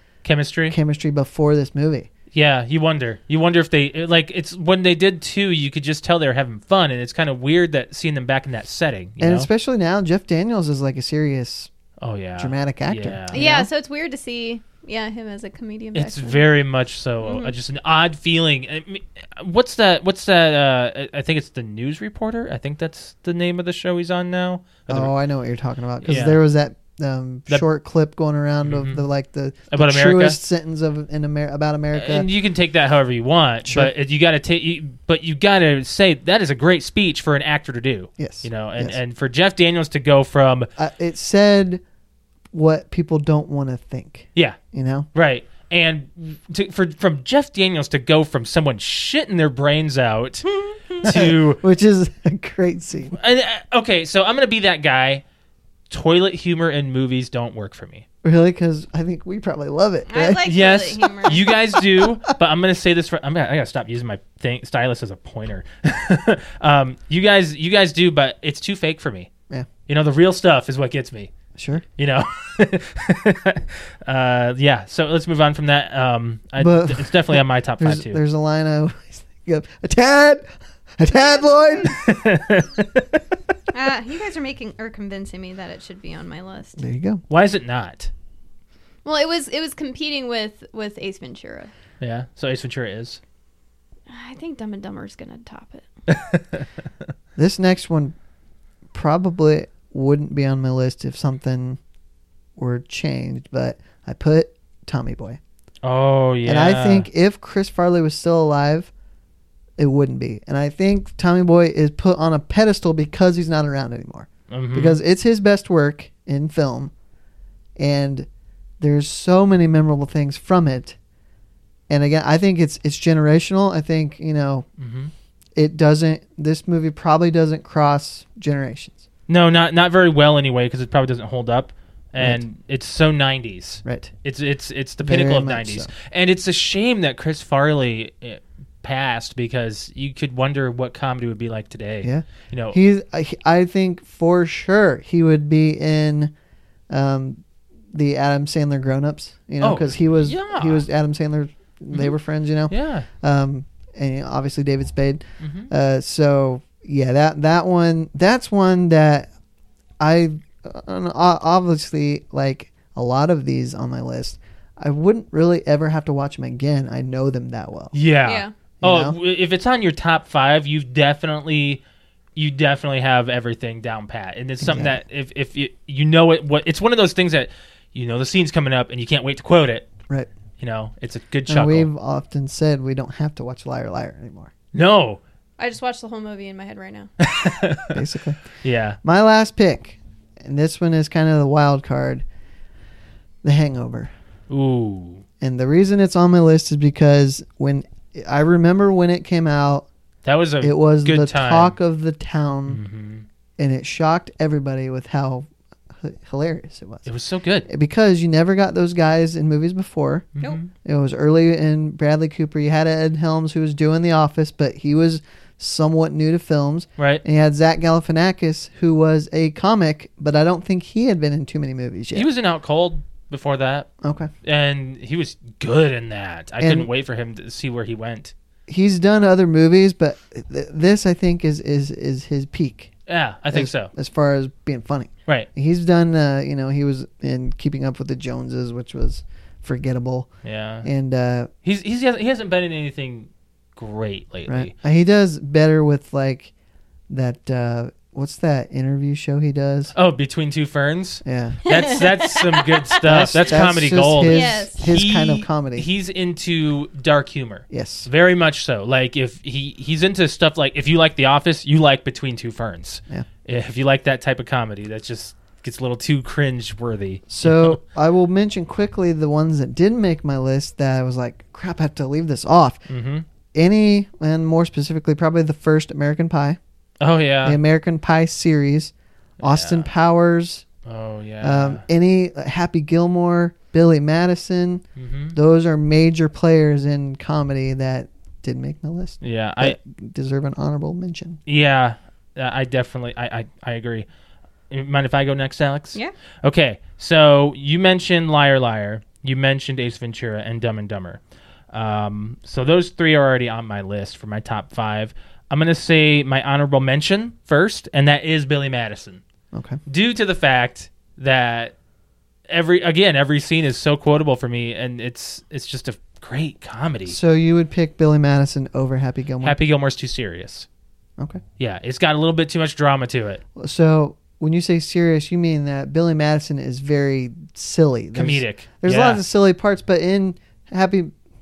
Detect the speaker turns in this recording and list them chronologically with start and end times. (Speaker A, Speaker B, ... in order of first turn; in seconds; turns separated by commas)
Speaker A: 0.2-0.8, Speaker B: 0.7-2.1, Speaker A: 2.3-9.5, Speaker B: 9.2-11.7, Speaker A: 12.0-13.4, Speaker B: 12.4-13.7, Speaker C: 13.3-16.4, Speaker A: 15.9-25.1, Speaker C: 17.2-17.5, Speaker B: 24.9-32.3, Speaker A: 26.0-26.4, Speaker A: 28.6-29.0, Speaker A: 29.7-30.4, Speaker A: 31.9-40.7, Speaker B: 33.6-33.9, Speaker B: 38.2-39.0, Speaker B: 40.8-41.8, Speaker B: 42.5-45.1, Speaker A: 45.1-51.6, Speaker C: 50.5-51.1, Speaker B: 51.0-53.1, Speaker A: 53.1-55.2, Speaker A: 55.9-58.1, Speaker B: 58.2-60.5, Speaker C: 60.1-61.5, Speaker A: 60.4-69.3, Speaker A: 69.9-71.3, Speaker B: 71.6-71.8, Speaker A: 72.0-78.2, Speaker B: 76.6-80.5, Speaker B: 81.0-82.0, Speaker C: 81.1-81.9, Speaker A: 81.9-83.2, Speaker C: 83.7-86.8, Speaker B: 86.8-87.2, Speaker A: 87.3-88.1, Speaker C: 89.0-91.7, Speaker A: 92.0-93.2, Speaker C: 94.1-95.8, Speaker A: 96.1-96.7, Speaker B: 97.4-98.2, Speaker B: 98.9-101.8, Speaker B: 102.6-105.4, Speaker A: 105.8-107.1, Speaker B: 106.4-108.9, Speaker B: 109.8-116.9, Speaker A: 114.5-115.0, Speaker B: 117.8-118.3, Speaker B: 118.8-121.0, Speaker B: 121.9-124.7, Speaker A: 124.8-125.1, Speaker B: 125.5-129.0, Speaker A: 129.3-142.8, Speaker B: 133.8-134.1, Speaker B: 135.0-135.9, Speaker B: 142.0-146.3, Speaker B: 146.9-159.3, Speaker A: 149.6-150.8, Speaker A: 152.7-153.1, Speaker A: 155.4-155.7, Speaker B: 160.0-167.9, Speaker A: 167.9-171.8, Speaker C: 168.2-168.5, Speaker B: 168.8-169.2, Speaker A: 172.4-179.9, Speaker B: 174.6-175.0, Speaker A: 180.6-181.9, Speaker B: 181.5-184.5, Speaker A: 184.7-185.2, Speaker C: 185.6-187.1, Speaker A: 187.2-188.0, Speaker B: 187.9-188.4, Speaker A: 188.6-189.0, Speaker B: 189.0-192.2, Speaker B: 193.4-194.1, Speaker A: 194.5-195.2, Speaker B: 195.4-199.9, Speaker A: 200.2-201.8, Speaker B: 200.6-202.8, Speaker A: 202.7-203.2, Speaker B: 203.6-207.1, Speaker A: 207.1-207.7, Speaker B: 207.7-210.3, Speaker A: 210.4-210.7, Speaker B: 210.8-222.3, Speaker A: 217.0-217.2, Speaker A: 222.1-223.9, Speaker B: 224.0-224.3, Speaker A: 224.4-228.3, Speaker B: 226.6-226.9, Speaker B: 228.7-232.9, Speaker A: 233.1-233.9, Speaker B: 233.5-240.3, Speaker A: 240.4-240.9, Speaker B: 240.8-241.5, Speaker A: 241.6-244.7, Speaker B: 244.5-246.5, Speaker B: 247.1-249.9, Speaker A: 249.9-267.8, Speaker B: 251.2-251.6, Speaker C: 251.7-253.0, Speaker B: 253.0-255.9, Speaker C: 254.3-254.8, Speaker B: 257.7-258.1, Speaker B: 267.3-272.8, Speaker A: 272.9-273.2, Speaker B: 273.5-276.6, Speaker A: 277.0-277.6, Speaker B: 277.4-280.6, Speaker A: 279.4-279.9, Speaker A: 280.9-281.8, Speaker B: 281.4-284.8, Speaker A: 285.0-285.4, Speaker B: 285.3-291.4, Speaker A: 289.2-289.8, Speaker A: 291.5-294.1, Speaker A: 294.7-301.2, Speaker A: 301.7-309.2, Speaker B: 309.5-309.8, Speaker A: 309.9-311.7, Speaker A: 312.5-317.2, Speaker B: 317.1-319.6, Speaker A: 319.4-320.7, Speaker A: 321.6-323.4, Speaker B: 323.6-331.1, Speaker A: 328.1-329.2